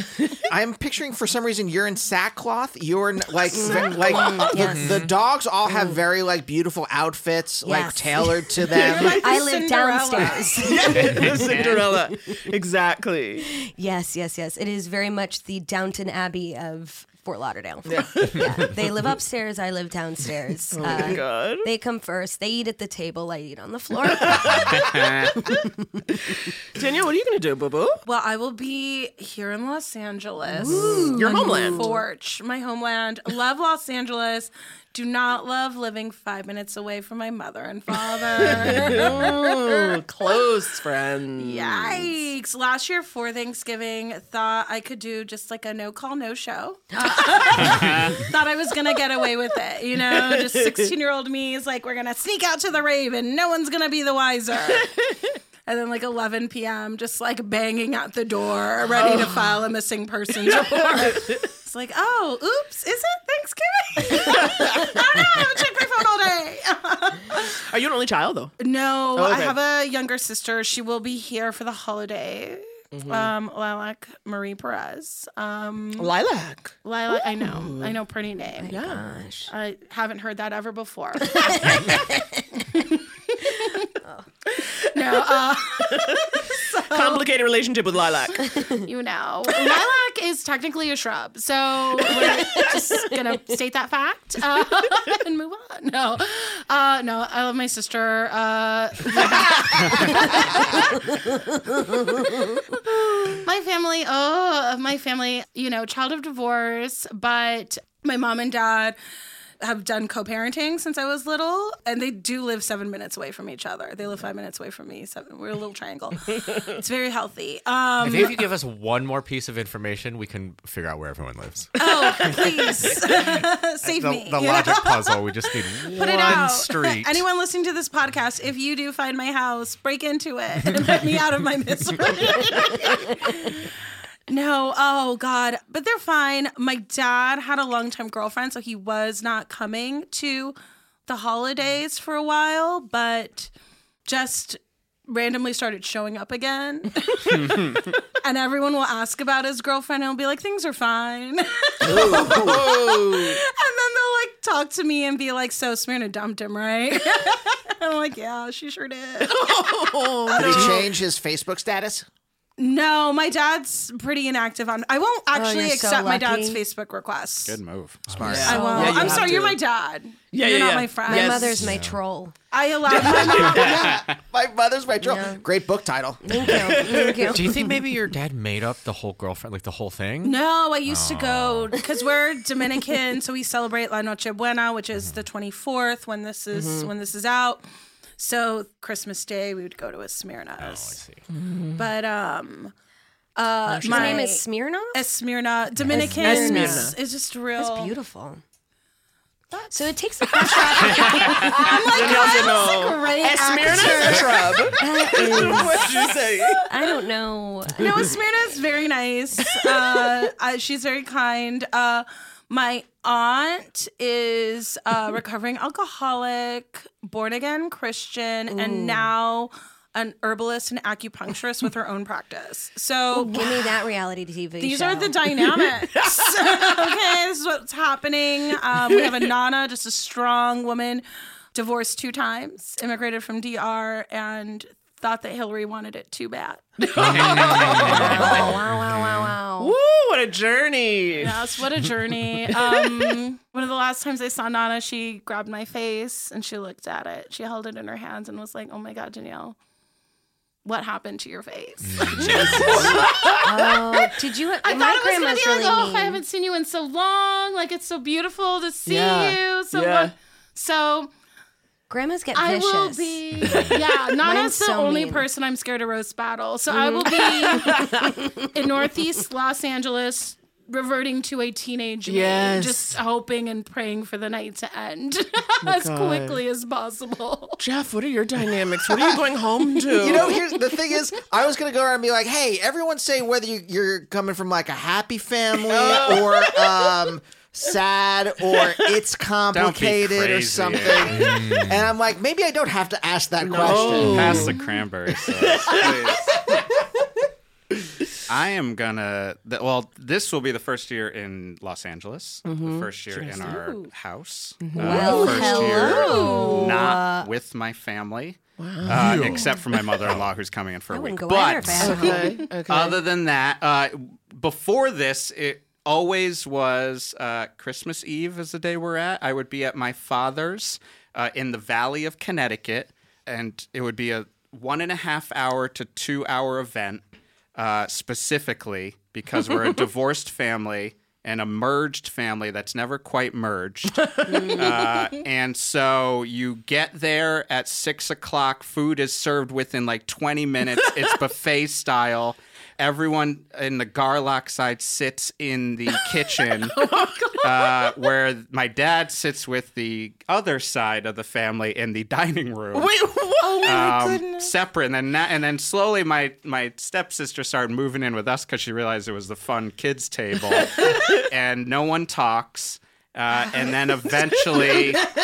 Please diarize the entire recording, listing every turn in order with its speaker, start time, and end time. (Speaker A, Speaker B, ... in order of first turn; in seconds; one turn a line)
Speaker A: 0.5-9.2
Speaker B: 3.5-5.0
Speaker C: 4.6-5.1
Speaker B: 7.7-11.5
Speaker D: 8.8-10.8
Speaker E: 10.6-13.5
Speaker F: 11.3-11.9
Speaker B: 13.5-25.6
Speaker E: 17.9-18.4
Speaker E: 20.7-21.7
Speaker E: 24.2-24.7
Speaker F: 24.9-25.3
Speaker E: 26.8-28.0
Speaker D: 28.1-39.8
Speaker B: 30.6-32.0
Speaker E: 30.6-31.9
Speaker E: 38.4-42.1
Speaker D: 41.4-54.9
Speaker E: 50.0-50.9
Speaker D: 55.7-67.5
Speaker E: 58.9-59.5
Speaker E: 60.4-61.4
Speaker E: 67.6-68.5
Speaker D: 68.6-76.1
Speaker E: 69.2-69.6
Speaker E: 72.9-73.3
Speaker E: 76.0-76.8
Speaker D: 76.8-78.8
Speaker E: 77.4-77.9
Speaker B: 78.6-79.5
Speaker E: 78.7-79.0
Speaker D: 79.5-82.0
Speaker B: 81.3-82.3
Speaker D: 84.9-87.3
Speaker E: 85.9-86.2
Speaker E: 86.9-88.4
Speaker B: 88.5-88.8
Speaker D: 88.9-101.0
Speaker B: 92.2-92.7
Speaker B: 100.6-102.6
Speaker D: 103.4-109.0
Speaker D: 109.6-118.5
Speaker C: 118.0-123.0
Speaker D: 121.8-133.5
Speaker C: 123.8-127.2
Speaker D: 134.3-140.6
Speaker D: 141.1-143.5
Speaker D: 144.1-160.8
Speaker A: 151.8-152.7
Speaker E: 151.9-153.4
Speaker E: 159.2-160.9
Speaker A: 160.3-162.1
Speaker D: 162.6-167.6
Speaker B: 165.3-166.6
Speaker F: 167.5-168.1
Speaker A: 168.1-168.6
Speaker C: 168.1-168.4
Speaker E: 168.3-169.6
Speaker D: 168.4-171.6
Speaker B: 168.5-169.4
Speaker E: 170.3-171.6
Speaker B: 171.1-172.3
Speaker C: 171.6-172.0
Speaker D: 172.5-174.1
Speaker E: 172.9-173.7
Speaker A: 173.4-176.6
Speaker F: 173.7-174.0
Speaker B: 175.0-175.4
Speaker B: 176.2-177.7
Speaker E: 176.4-177.4
Speaker C: 177.3-181.8
Speaker D: 180.2-187.6
Speaker C: 184.9-185.2
Speaker E: 186.5-186.9
Speaker D: 188.2-191.0
Speaker C: 190.6-191.2
Speaker E: 191.3-191.8
Speaker D: 191.8-192.7
Speaker D: 193.4-197.9
Speaker E: 193.7-194.2
Speaker B: 193.8-195.0
Speaker B: 195.9-196.9
Speaker E: 195.9-196.9
Speaker B: 197.6-198.4
Speaker D: 199.5-204.5
Speaker B: 199.7-202.3
Speaker E: 201.6-206.7
Speaker B: 204.8-205.9
Speaker B: 206.7-208.2
Speaker D: 207.8-223.6
Speaker E: 209.6-210.1
Speaker B: 218.5-219.1
Speaker B: 223.1-225.2
Speaker D: 224.6-236.6
Speaker E: 226.0-226.7
Speaker E: 228.9-229.3
Speaker E: 236.8-238.5
Speaker C: 237.1-239.4
Speaker D: 237.2-237.7
Speaker B: 237.8-239.8
Speaker E: 239.6-241.3
Speaker D: 241.2-249.6
Speaker E: 242.5-243.1
Speaker D: 250.7-253.4
Speaker C: 251.8-252.9
Speaker E: 252.2-253.5
Speaker B: 253.4-256.2
Speaker D: 254.6-261.1
Speaker E: 258.9-260.1
Speaker B: 261.9-265.3
Speaker D: 262.3-267.9
Speaker C: 263.5-263.7
Speaker B: 266.7-267.9
Speaker E: 267.4-268.1
Speaker D: 268.5-277.6
Speaker E: 272.1-272.9
Speaker E: 275.6-276.4
Speaker E: 277.6-280.4
Speaker A: 280.0-294.5
Speaker E: 285.6-286.9
Speaker E: 288.5-288.9
Speaker F: 289.5-291.3
Speaker C: 291.1-291.9
Speaker E: 293.4-294.6
Speaker F: 293.9-296.4
Speaker E: 295.4-296.0
Speaker F: 298.3-327.0
Speaker E: 302.4-303.6
Speaker D: 303.5-303.9
Speaker E: 304.6-306.2
Speaker B: 304.8-307.3
Speaker D: 304.9-306.7
Speaker E: 308.6-309.3
Speaker C: 308.9-309.5
Speaker B: 310.9-312.4
Speaker E: 311.8-313.0
Speaker F: 327.6-346.8
Speaker E: 334.0-334.4
Speaker B: 334.3-334.6
Speaker E: 346.8-347.3
Speaker F: 347.4-352.9
Speaker E: 352.7-354.2
Speaker D: 353.4-354.5
Speaker F: 353.6-365.1